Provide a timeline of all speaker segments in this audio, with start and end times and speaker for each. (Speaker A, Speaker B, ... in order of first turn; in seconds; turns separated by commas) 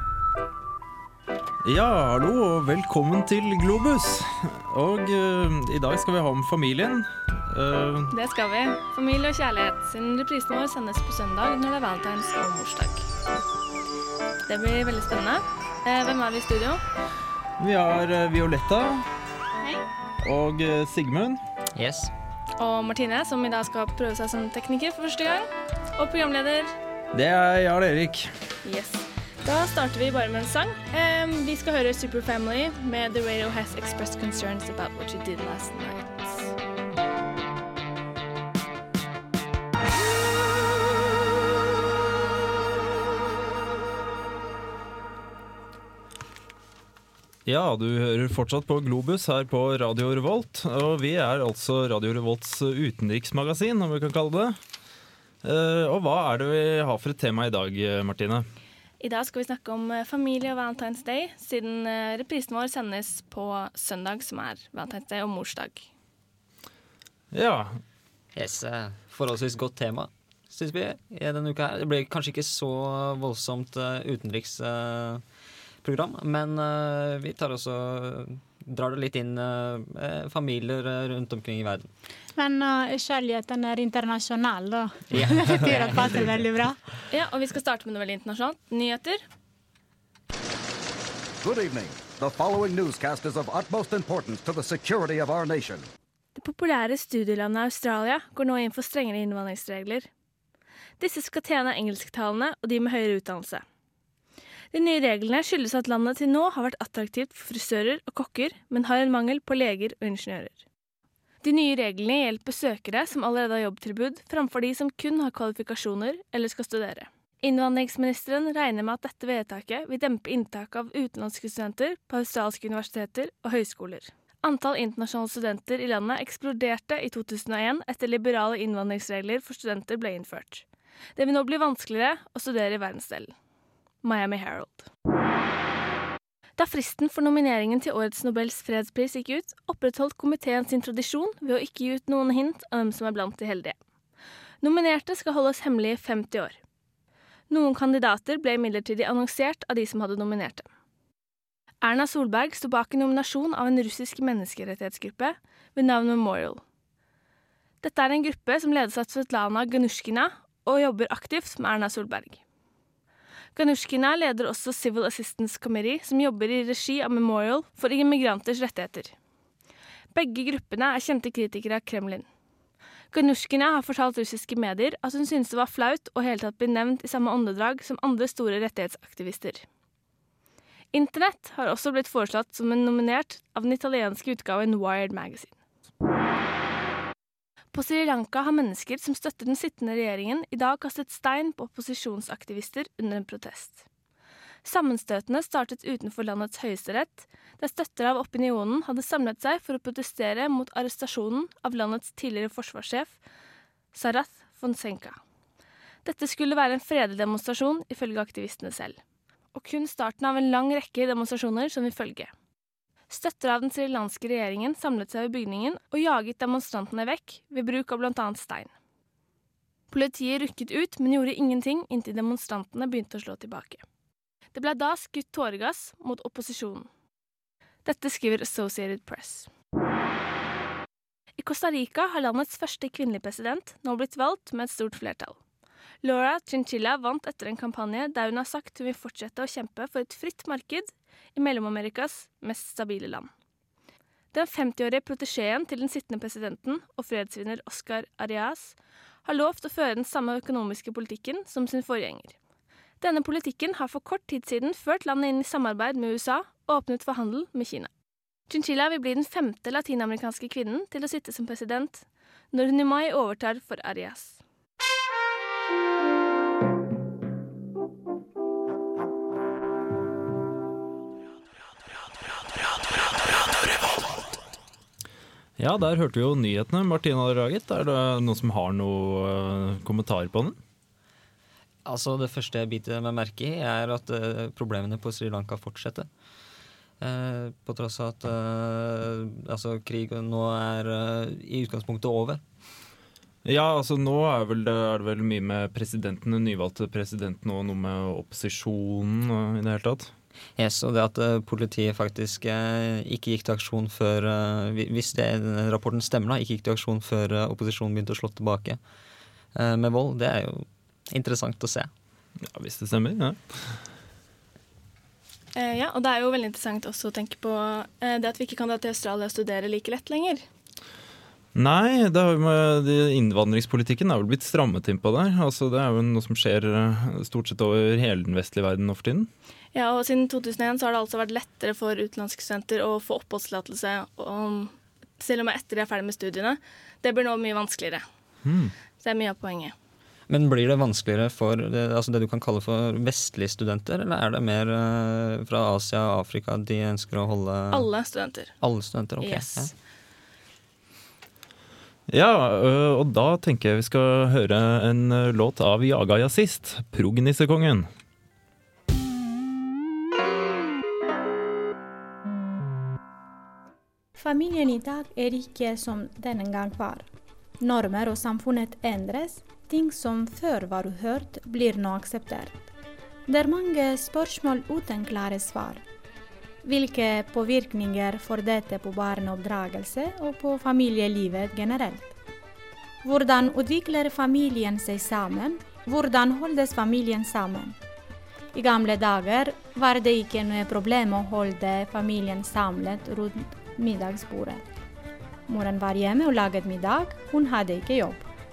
Speaker A: 1.6-8.1, Speaker B: 8.1-13.1, Speaker B: 14.5-16.8, Speaker A: 17.6-19.1, Speaker A: 20.2-21.4, Speaker C: 21.8-22.1, Speaker B: 22.6-26.7, Speaker A: 27.1-28.3, Speaker B: 28.6-36.5, Speaker A: 47.5-54.6, Speaker A: 55.4-58.5, Speaker B: 59.0-65.9, Speaker A: 67.3-67.8, Speaker C: 68.4-75.2, Speaker C: 75.8-81.9, Speaker D: 82.4-86.8, Speaker C: 85.1-86.5, Speaker B: 87.1-89.2, Speaker E: 91.4-95.9, Speaker B: 96.4-100.1, Speaker B: 101.0-103.7, Speaker B: 104.7-110.6, Speaker B: 111.4-130.7, Speaker B: 131.2-133.3, Speaker B: 134.0-134.9, Speaker B: 136.6-143.8, Speaker B: 144.6-146.6, Speaker B: 147.5-150.7, Speaker B: 151.8-156.6, Speaker B: 157.8-162.4, Speaker B: 163.6-169.2, Speaker B: 170.1-172.3, Speaker B: 173.1-179.7, Speaker B: 180.9-185.6, Speaker B: 187.7-193.8, Speaker B: 194.6-203.2, Speaker B: 203.9-205.2, Speaker B: 206.0-209.0, Speaker B: 209.5-212.3, Speaker B: 213.1-218.7, Speaker B: 219.9-223.8, Speaker B: 224.5-226.9, Speaker B: 227.8-229.5, Speaker B: 231.4-235.4, Speaker B: 236.0-243.3, Speaker B: 244.3-252.4, Speaker B: 253.0-257.9, Speaker B: 258.5-264.4, Speaker A: 275.6-280.6, Speaker C: 281.9-286.1, Speaker C: 287.0-292.4, Speaker A: 293.4-300.1, Speaker C: 300.6-308.8, Speaker C: 309.6-311.9, Speaker A: 312.4-313.8, Speaker B: 315.6-320.4, Speaker A: 321.6-329.3, Speaker B: 329.7-338.1, Speaker A: 338.4-338.7, Speaker B: 339.0-339.8, Speaker C: 340.3-347.9, Speaker B: 347.7-348.6, Speaker C: 348.6-349.7, Speaker B: 349.2-349.7, Speaker A: 352.1-357.9, Speaker D: 364.2-367.1, Speaker D: 367.6-372.7, Speaker D: 373.3-375.8, Speaker D: 376.6-382.1, Speaker D: 383.0-387.8, Speaker D: 388.5-394.6, Speaker D: 395.5-398.3